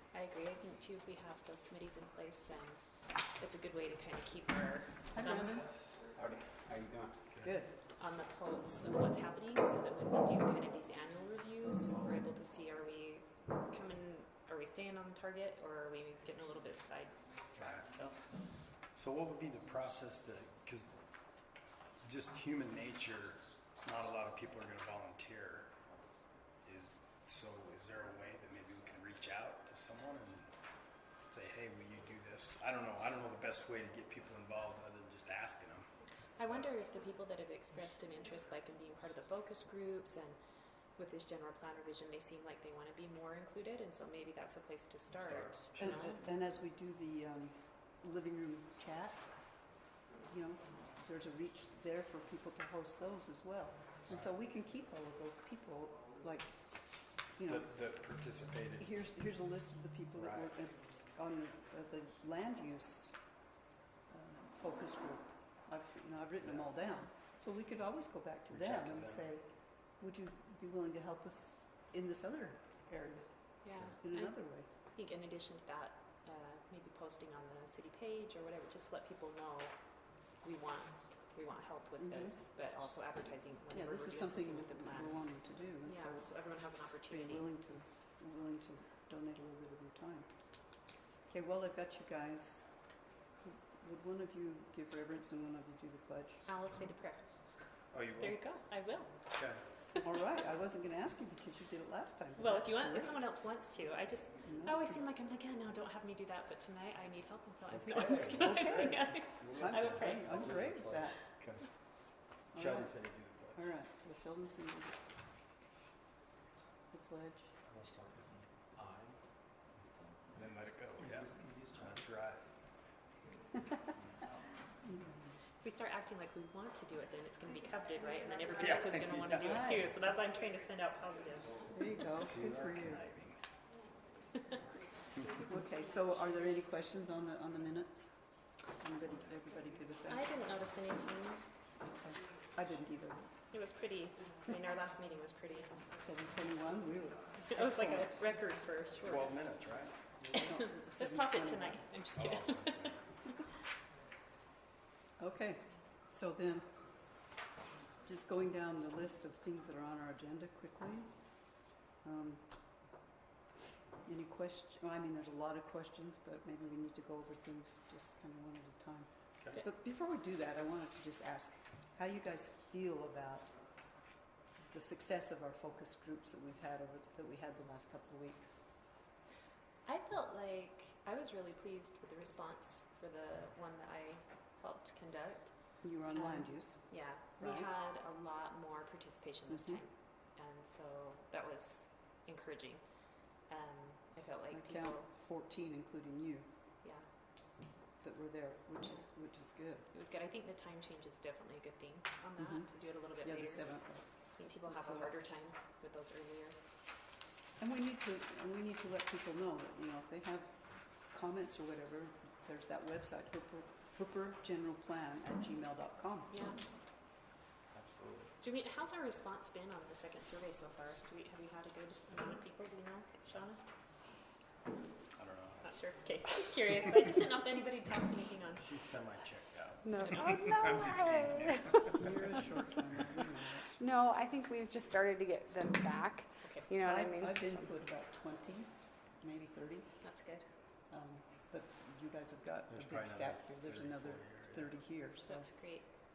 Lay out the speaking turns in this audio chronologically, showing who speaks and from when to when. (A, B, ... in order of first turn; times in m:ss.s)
0:00.1-0:05.7 A
0:05.1-0:05.7 B
0:06.2-0:07.2 C
0:07.4-0:07.8 B
0:08.0-0:18.4 A
0:17.5-0:17.9 D
0:18.8-0:20.9 D
0:22.0-0:25.7 D
0:26.6-0:30.5 D
0:31.2-0:35.9 D
0:36.4-0:40.4 A
0:40.9-0:46.2 A
0:45.2-0:45.9 D
0:45.7-0:58.1 B
0:57.5-0:58.8 D
0:58.8-1:03.3 B
1:00.2-1:00.5 D
1:04.1-1:14.7 B
1:08.6-1:09.2 D
1:13.6-1:27.5 A
1:22.0-1:22.4 B
1:23.7-1:26.4 B
1:27.1-1:30.8 B
1:31.3-1:32.9 B
1:33.4-1:36.5 B
1:36.4-1:37.6 A
1:37.9-1:38.4 D
1:38.2-1:40.0 A
1:39.3-1:39.6 D
1:40.0-1:43.1 B
1:42.4-1:50.3 A
1:44.4-1:45.0 B
1:47.9-1:48.4 C
1:48.0-1:48.4 D
1:48.4-1:49.0 B
1:49.4-1:51.1 C
1:49.6-1:51.2 B
1:51.4-1:51.6 D
1:52.5-1:52.9 B
1:52.6-1:53.6 D
1:53.5-1:55.1 B
1:56.9-1:57.6 B
1:57.7-1:59.2 C
1:59.7-2:02.0 C
2:00.4-2:02.4 D
2:04.8-2:05.4 B
2:05.6-2:11.6 A
2:08.4-2:08.7 E
2:08.6-2:09.4 D
2:09.4-2:09.9 B
2:11.7-2:13.0 B
2:12.2-2:13.4 D
2:14.6-2:14.8 E
2:15.5-2:18.2 B
2:18.7-2:20.2 B
2:20.0-2:21.5 A
2:21.8-2:23.3 B
2:23.5-2:26.6 A
2:25.9-2:28.4 B
2:27.3-2:29.3 A
2:29.0-2:30.0 D
2:30.3-2:32.0 B
2:30.4-2:33.2 A
2:32.1-2:33.0 D
2:35.2-2:36.7 B
2:38.0-2:41.3 B
2:42.0-2:42.8 B
2:44.0-2:53.6 B
2:54.7-2:58.6 B
2:59.8-3:15.1 A
3:05.8-3:07.7 B
3:09.5-3:09.8 B
3:14.5-3:16.5 B
3:16.8-3:17.1 A
3:18.0-3:19.9 B
3:19.9-3:26.6 A
3:22.4-3:25.2 B
3:27.6-3:36.4 B
3:36.3-3:36.6 A
3:37.7-3:38.3 D
3:38.4-3:43.6 A
3:45.1-3:45.7 D
3:45.6-3:48.8 A
3:48.6-3:52.0 D
3:49.8-3:51.8 E
3:50.0-3:50.4 A
3:52.0-3:53.9 B
3:53.6-3:57.7 E
3:56.4-3:56.7 A
3:56.8-4:00.0 B
4:00.0-4:00.5 A
4:00.9-4:05.5 B
4:02.7-4:04.6 D
4:05.2-4:05.9 A